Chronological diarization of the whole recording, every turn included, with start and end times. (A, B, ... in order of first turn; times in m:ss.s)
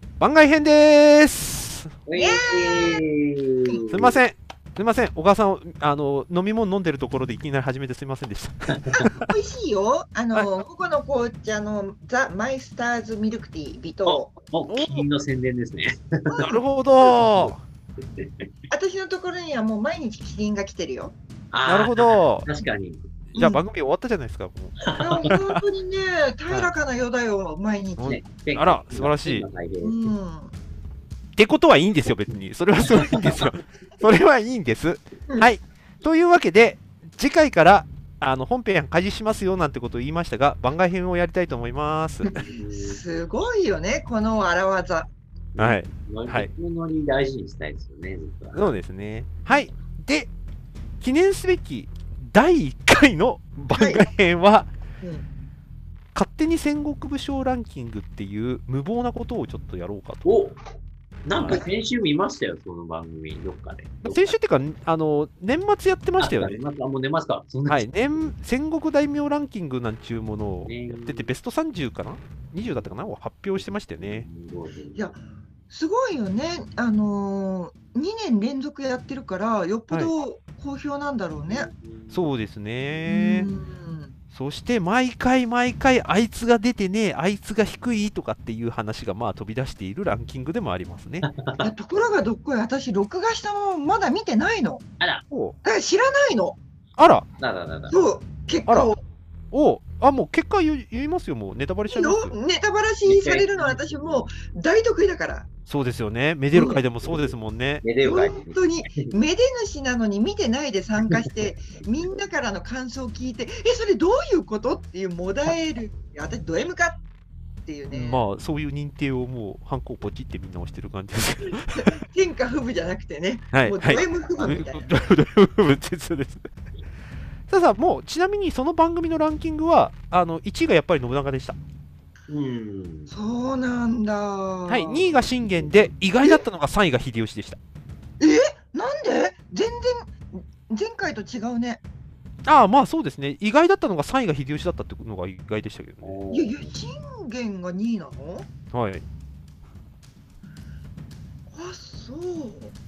0:00.2-0:01.9 A
0:02.1-0:04.2 B
0:02.1-0:03.0 C
0:03.9-0:09.3 A
0:09.0-0:14.3 C
0:14.0-0:17.5 B
0:14.7-0:15.0 A
0:16.3-0:16.6 C
0:16.4-0:17.6 A
0:18.2-0:18.5 B
0:18.7-0:21.2 C
0:21.5-0:23.4 B
0:21.6-0:22.5 A
0:23.3-0:25.6 A
0:23.4-0:23.6 C
0:24.8-0:25.3 B
0:24.9-0:28.2 C
0:26.5-0:26.7 A
0:28.0-0:29.4 A
0:28.0-0:30.1 B
0:29.8-0:30.5 C
0:31.4-0:42.4 A
0:42.3-0:45.1 C
0:42.4-0:43.0 B
0:45.5-0:48.8 B
0:45.6-0:46.5 A
0:48.5-0:50.3 A
0:51.0-0:54.7 A
0:53.7-0:54.1 C
0:55.0-0:55.2 C
0:56.1-1:00.3 A
1:00.2-1:00.6 B
1:01.2-1:04.6 B
1:01.3-1:01.6 A
1:04.0-1:06.6 A
1:06.2-1:08.3 B
1:07.7-1:14.3 A
1:10.6-1:11.3 B
1:12.6-1:15.2 B
1:15.7-1:21.7 C
1:21.4-1:22.3 B
1:22.1-1:23.5 A
1:23.0-1:24.1 C
1:24.3-1:31.3 A
1:31.3-1:31.7 B
1:31.6-1:34.8 C
1:35.0-1:35.2 B
1:35.3-1:35.6 A
1:35.6-1:36.6 C
1:37.0-1:37.3 A
1:37.4-1:38.1 B
1:37.9-1:39.0 C
1:38.7-1:38.9 A
1:39.5-1:42.3 A
1:41.9-1:45.5 C
1:43.0-1:44.3 B
1:45.7-1:47.8 A
1:46.5-1:46.8 C
1:47.0-1:49.2 B
1:48.0-1:57.0 C
1:51.0-1:51.8 B
1:57.6-1:58.2 C
1:57.9-2:01.9 A
2:01.7-2:05.0 C
2:03.5-2:06.4 A
2:03.8-2:04.6 B
2:07.5-2:11.6 A
2:12.3-2:13.1 B
2:13.1-2:15.0 C
2:14.7-2:17.6 A
2:15.0-2:15.9 B
2:18.2-2:21.8 C
2:22.4-2:26.1 A
2:26.0-2:26.7 B
2:26.3-2:28.5 C
2:28.7-2:29.0 A
2:31.5-2:32.8 C